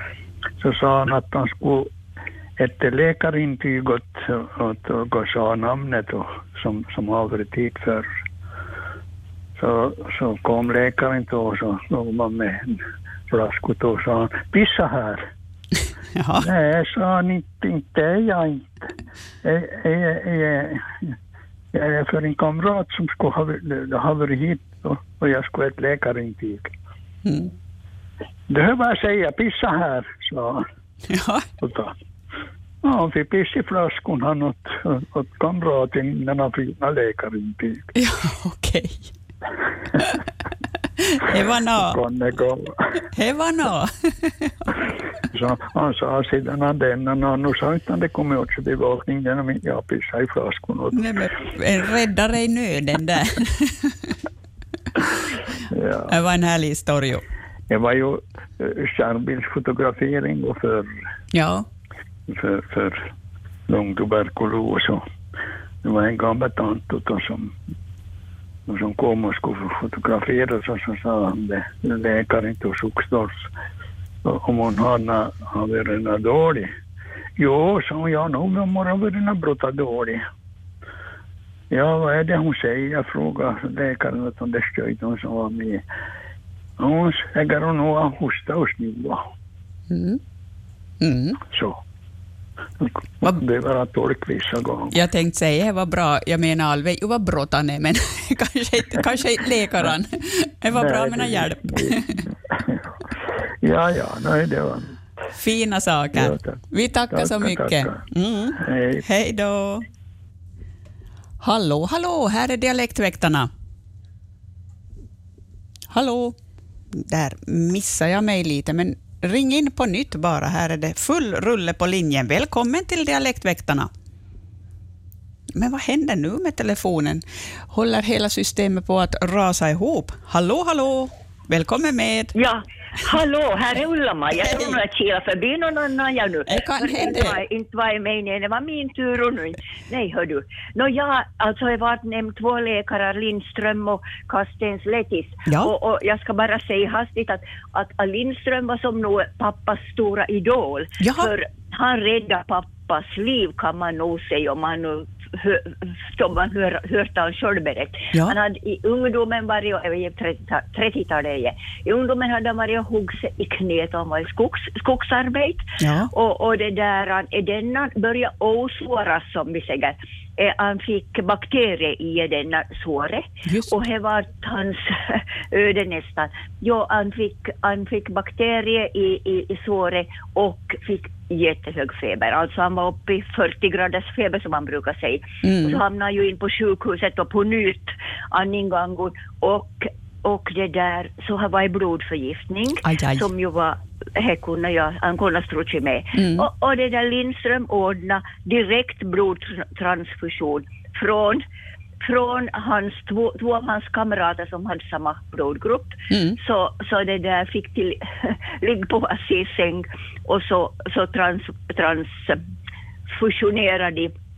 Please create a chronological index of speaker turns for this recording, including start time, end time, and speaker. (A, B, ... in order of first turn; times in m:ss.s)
0:00.6-0:01.9 A
0:02.6-0:08.1 A
0:09.6-0:15.3 A
0:16.2-0:16.5 B
0:16.4-0:18.9 A
0:19.4-0:21.1 A
0:21.7-0:26.7 A
0:27.2-0:27.5 B
0:28.5-0:30.6 A
0:31.1-0:31.5 B
0:31.6-0:32.0 A
0:32.8-0:37.9 A
0:38.0-0:39.1 B
0:41.0-0:42.0 B
0:41.8-0:43.0 A
0:43.1-0:44.5 B
0:45.3-0:51.0 A
0:50.9-0:54.1 B
0:55.7-0:56.1 A
0:56.1-0:57.2 B
0:57.7-1:00.9 A
1:01.3-1:01.7 B
1:02.3-1:03.1 A
1:03.7-1:05.0 A
1:05.8-1:07.6 A
1:08.7-1:13.5 A
1:14.2-1:16.7 A
1:17.4-1:20.2 A
1:21.7-1:25.8 A
1:26.8-1:29.3 A
1:29.9-1:30.2 B
1:31.0-1:31.4 B
1:31.5-1:31.8 A
1:32.8-1:34.9 A
1:34.9-1:42.2 B
1:40.7-1:42.8 A
1:43.6-1:45.0 A
1:45.4-1:49.8 B
1:46.1-1:46.6 A
1:47.1-1:48.0 A
1:48.6-1:49.0 A
1:51.4-1:53.5 B
1:55.9-1:56.4 B
1:57.0-2:03.9 B
2:05.6-2:12.3 B
2:12.4-3:21.4 C
2:14.4-2:14.8 B
2:16.5-2:17.4 B
2:31.0-2:31.3 B
2:45.8-2:46.1 B
2:53.5-2:53.8 B
3:05.4-3:05.8 B
3:12.8-3:13.2 B
3:16.2-3:16.5 B
3:22.0-3:32.4 C
3:26.1-3:26.4 B
3:33.1-3:34.1 C